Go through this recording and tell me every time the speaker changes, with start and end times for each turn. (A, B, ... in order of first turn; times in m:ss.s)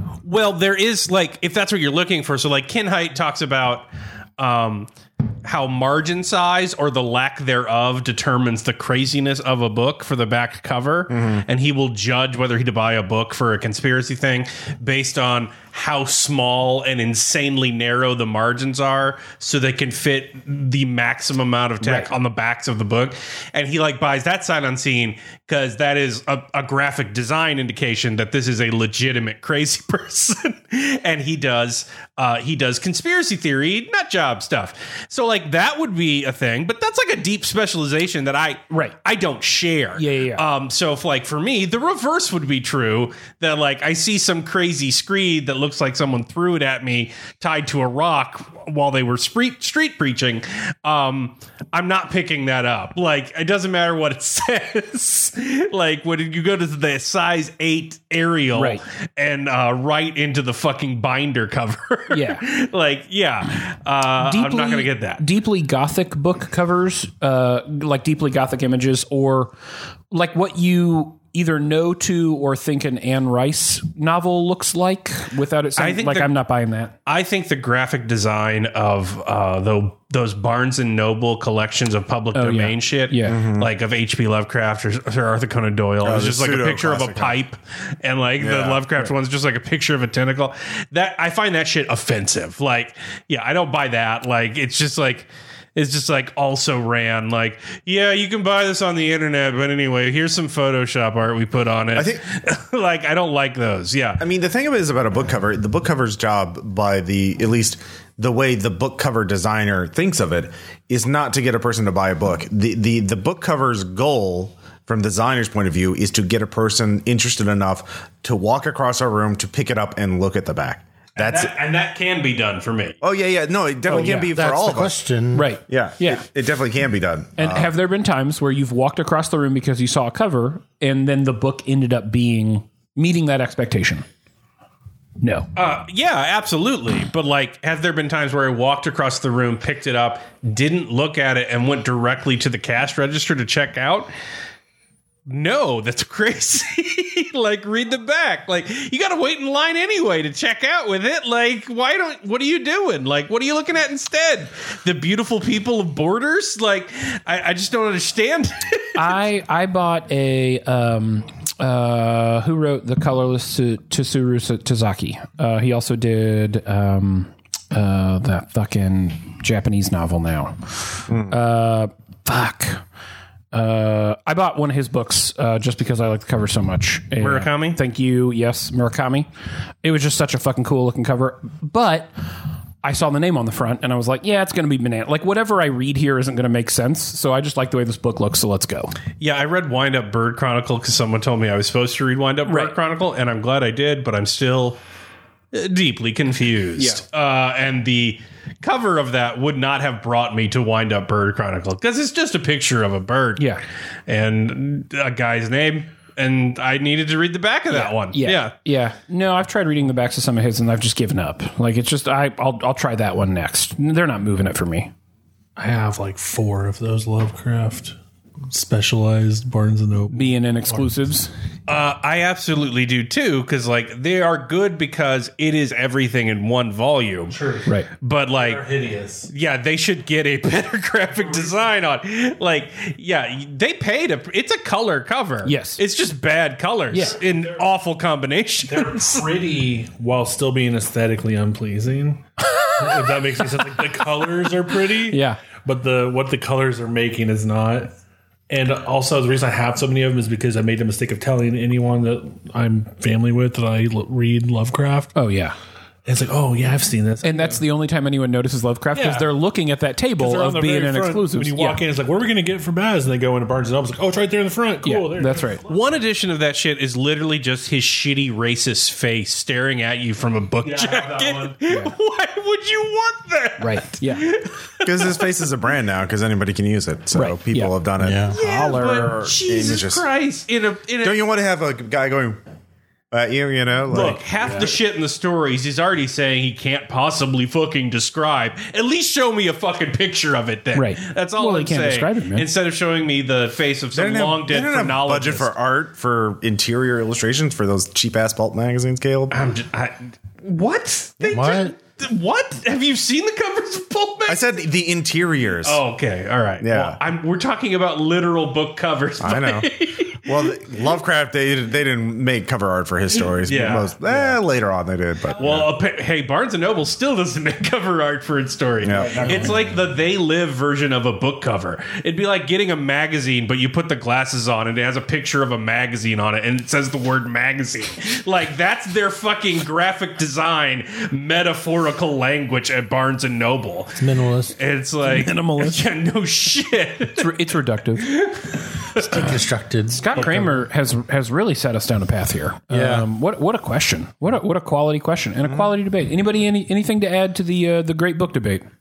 0:00.2-0:04.9 A
0:05.4-1:05.2 A
0:11.1-0:11.4 B
0:21.8-0:22.1 C
0:38.7-0:39.0 C
0:40.0-0:40.4 C
0:58.5-0:58.8 C
1:02.1-1:02.4 C
1:04.2-1:09.5 C
1:10.1-1:16.9 C
1:15.8-1:16.3 A
1:17.0-1:44.2 A
1:22.3-1:23.4 C
1:23.2-1:23.7 B
1:26.0-1:27.4 B
1:28.4-1:28.8 B
1:41.9-1:42.2 B
1:44.2-2:01.5 B
2:01.2-2:03.0 A
2:03.0-2:05.0 B
2:03.9-2:04.3 C
2:04.2-2:05.5 D
2:05.3-2:06.2 C
2:05.7-2:07.7 B
2:07.4-2:14.0 C
2:15.2-2:15.5 C
2:15.6-2:24.1 A
2:25.3-2:39.2 A
2:39.0-2:52.8 C
2:51.1-2:51.4 B
2:53.5-2:59.3 C
2:57.2-2:57.8 A
2:59.8-3:02.1 C
3:02.8-3:09.0 C
3:09.2-3:14.8 A
3:12.4-3:12.7 C
3:15.5-3:23.5 A
3:16.8-3:17.0 C
3:23.4-3:23.6 C
3:24.1-3:28.5 A
3:27.7-3:34.9 C
3:35.6-3:38.0 E
3:38.5-3:40.9 E
3:40.1-3:41.3 C
3:41.7-3:47.4 A
3:47.3-3:47.7 E
3:48.0-3:48.6 A
3:48.3-3:49.3 E
3:49.3-3:59.3 A
3:51.1-3:51.7 E
3:55.4-3:55.8 C
3:56.9-3:57.2 C
3:58.6-4:07.9 E
4:02.4-4:03.0 C
4:04.9-4:05.4 C
4:08.5-4:15.1 E
4:15.1-4:15.6 C
4:16.0-4:17.6 E
4:17.2-4:21.8 C
4:18.9-4:19.3 E
4:20.2-4:25.8 E
4:24.8-4:25.6 C
4:25.7-4:35.3 A
4:30.6-4:31.6 E
4:31.7-4:31.9 C
4:33.6-4:34.3 C
4:34.8-4:38.3 B
4:37.1-4:37.7 C
4:38.0-4:38.3 D
4:38.3-4:41.2 A
4:38.3-4:39.3 C
4:39.3-4:40.0 B
4:41.0-4:42.4 B
4:43.1-4:44.7 B
4:43.9-4:55.5 A
4:50.7-4:52.5 C
4:53.9-4:59.3 B
4:59.3-5:04.5 A
5:01.3-5:01.7 D
5:04.3-5:05.8 B
5:05.6-5:10.6 A
5:06.6-5:07.0 B
5:09.2-5:15.7 B
5:13.2-5:14.4 A
5:15.4-5:37.4 A
5:18.8-5:19.5 B
5:19.0-5:19.7 C
5:34.0-5:34.5 D
5:35.0-5:35.8 C
5:37.1-5:38.2 C
5:38.0-5:39.3 A
5:39.0-5:40.3 D
5:39.9-5:48.6 C
5:42.7-5:43.1 D